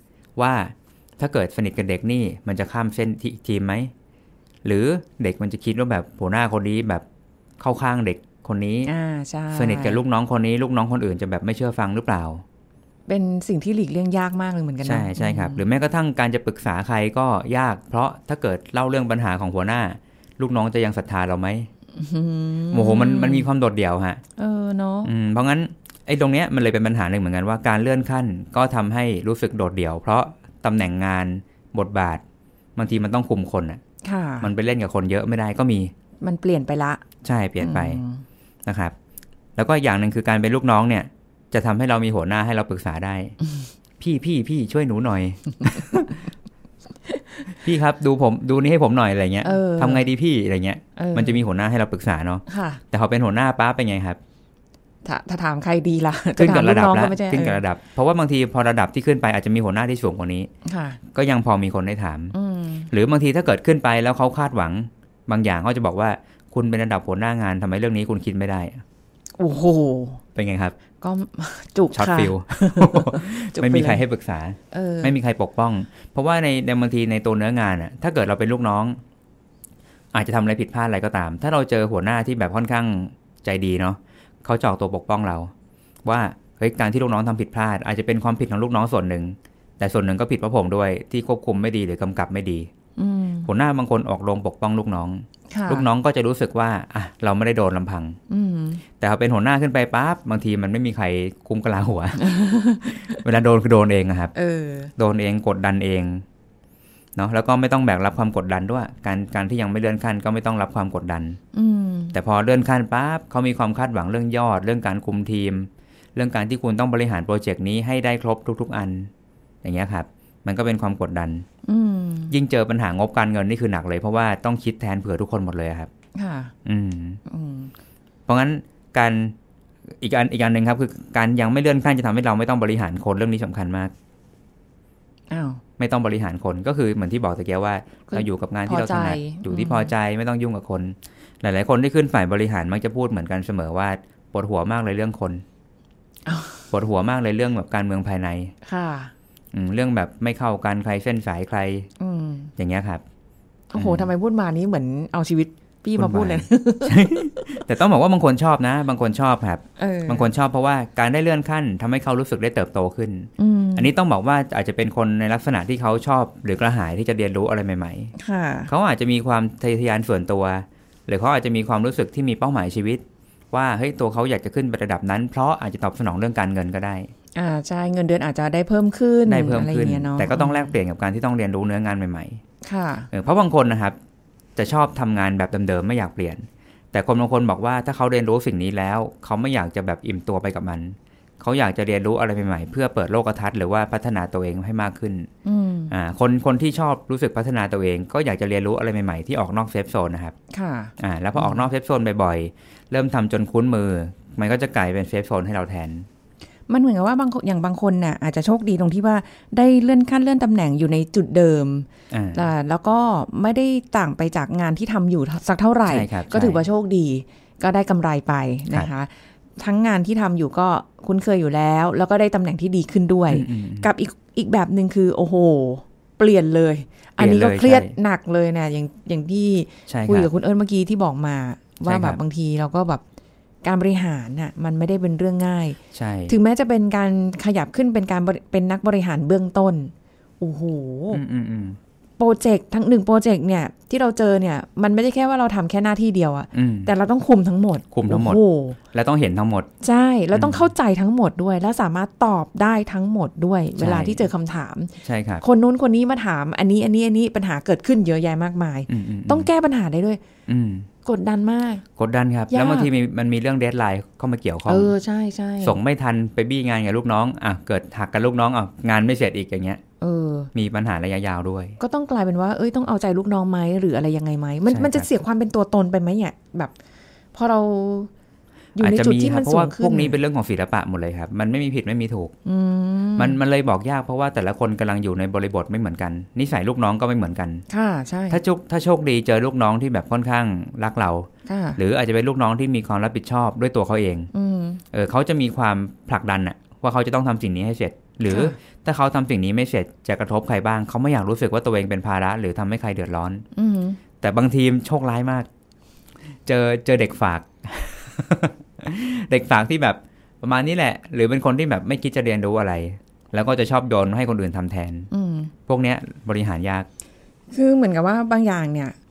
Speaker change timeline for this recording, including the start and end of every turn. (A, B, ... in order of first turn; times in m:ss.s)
0:00.4-0:03.9 A
0:04.6-0:07.0 A
0:07.6-0:08.9 A
0:08.8-0:10.0 B
0:09.5-0:12.4 A
0:13.1-0:15.6 B
0:14.8-0:21.7 A
0:21.9-0:23.5 B
0:22.7-0:24.2 A
0:24.4-0:25.1 B
0:25.0-0:32.2 A
0:32.8-0:33.8 A
0:34.0-0:34.5 B
0:34.4-0:35.9 A
0:36.2-0:37.0 B
0:37.2-0:38.0 A
0:37.6-0:38.2 B
0:38.6-0:38.9 A
0:39.6-0:43.4 A
0:44.0-0:46.2 A
0:47.6-0:54.2 A
0:49.4-0:50.1 B
0:51.0-0:51.4 B
0:52.5-0:52.8 B
0:55.0-0:57.6 B
0:56.4-1:00.5 A
1:00.6-1:01.0 B
1:01.1-1:02.3 A
1:02.3-1:02.9 B
1:02.9-1:08.8 A
1:09.4-1:10.2 B
1:10.3-1:10.7 A
1:11.0-1:14.0 B
1:11.9-1:19.0 A
1:14.7-1:15.2 B
1:20.1-1:25.5 A
1:26.0-1:32.7 A
1:33.0-1:33.5 B
1:33.4-1:38.2 A
1:35.5-1:35.8 B
1:38.3-1:38.8 B
1:39.0-1:42.4 A
1:42.2-1:43.2 B
1:43.1-1:44.3 A
1:44.3-1:44.9 B
1:45.0-1:46.2 A
1:47.2-1:51.4 A
1:51.5-1:52.2 B
1:52.1-1:59.1 A
1:59.6-2:01.4 A
2:01.6-2:02.3 B
2:02.3-2:05.9 A
2:06.2-2:06.5 B
2:06.6-2:07.2 A
2:07.3-2:07.7 B
2:08.3-2:09.3 A
2:09.9-2:13.9 A
2:15.3-2:15.6 B
2:15.8-2:25.4 A
2:18.1-2:19.9 B
2:26.2-2:26.6 B
2:26.7-2:28.5 A
2:28.6-2:29.1 B
2:29.5-2:31.9 A
2:32.0-2:32.5 B
2:32.6-2:33.0 A
2:33.7-2:37.6 B
2:33.7-2:34.1 A
2:36.0-2:48.1 A
2:39.8-2:40.3 B
2:43.4-2:43.9 B
2:48.2-2:48.7 B
2:48.7-2:57.1 A
2:57.4-3:00.7 B
2:59.2-3:02.4 A
3:02.6-3:03.1 B
3:03.1-3:04.0 A
3:04.6-3:15.3 A
3:15.4-3:15.9 B
3:15.9-3:20.4 A
3:20.5-3:21.6 B
3:21.0-3:26.1 A
3:26.7-3:53.0 B
3:32.1-3:32.5 A
3:35.9-3:36.6 A
3:43.3-3:43.9 A
3:47.2-3:47.9 A
3:49.9-3:50.3 A
3:51.8-3:52.2 A
3:53.6-4:01.2 B
3:55.9-3:56.3 A
4:01.1-4:01.8 A
4:02.2-4:08.8 B
4:06.5-4:06.9 A
4:07.9-4:08.4 A
4:08.9-4:09.7 A
4:09.8-4:20.2 B
4:10.3-4:10.7 A
4:13.8-4:14.3 A
4:15.0-4:15.4 A
4:18.9-4:19.5 A
4:20.5-4:20.9 A
4:21.0-4:21.8 B
4:22.0-4:24.9 A
4:22.5-4:22.9 B
4:24.7-4:25.8 B
4:25.6-4:29.8 A
4:30.0-4:30.5 B
4:30.5-4:31.8 A
4:31.8-4:36.7 B
4:34.7-4:35.1 A
4:37.3-4:38.1 B
4:38.7-4:40.2 B
4:38.8-4:42.3 A
4:42.4-4:43.4 B
4:43.2-4:47.6 A
4:47.7-4:48.4 B
4:48.3-4:54.3 A
4:51.4-4:51.8 B
4:54.3-4:54.8 B
4:54.9-5:03.4 A
4:58.3-4:58.6 B
5:03.5-5:04.0 B
5:04.2-5:05.5 A
5:06.4-5:15.1 A
5:15.1-5:15.5 B
5:15.7-5:16.9 A
5:17.5-5:18.9 B